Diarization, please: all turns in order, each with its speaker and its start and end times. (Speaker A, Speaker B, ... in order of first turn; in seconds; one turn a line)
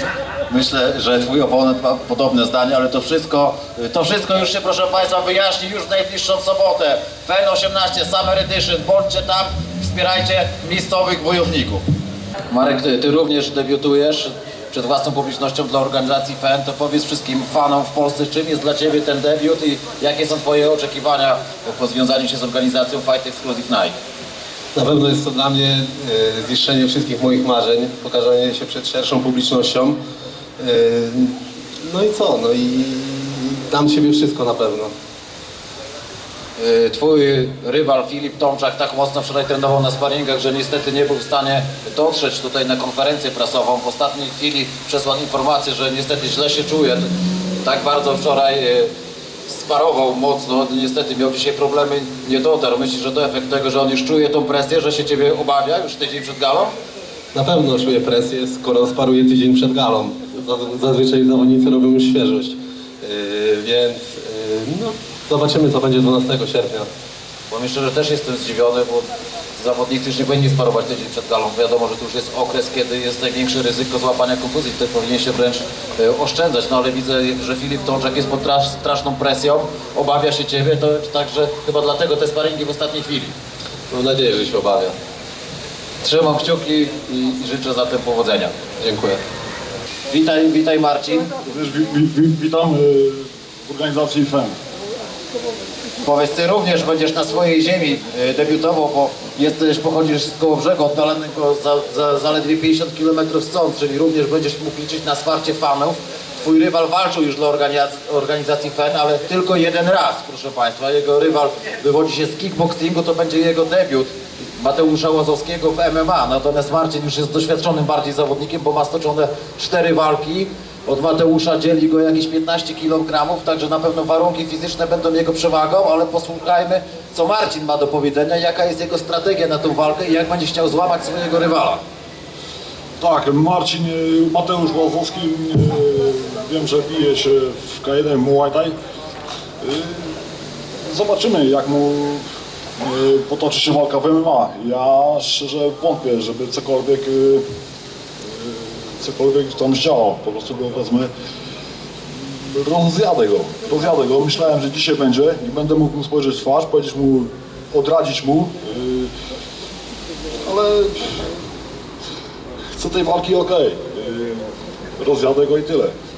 Speaker A: 0.5-11.8
Speaker A: 12.5-24.0
Speaker B: 24.7-30.0
Speaker B: 30.6-34.9
Speaker A: 36.6-47.1
Speaker A: 47.6-48.9
Speaker A: 49.5-56.8
Speaker B: 57.3-66.9
Speaker A: 67.5-83.4
Speaker B: 83.9-85.0
Speaker A: 86.0-88.6
Speaker B: 88.8-89.2
Speaker A: 90.1-91.3
Speaker C: 91.4-94.6
Speaker A: 96.0-131.8
Speaker C: 133.0-138.8
Speaker C: 139.6-140.2
Speaker C: 140.9-142.2
Speaker C: 142.8-147.4
Speaker C: 148.2-151.1
Speaker C: 152.1-159.1
Speaker C: 160.5-161.3
Speaker C: 162.8-165.9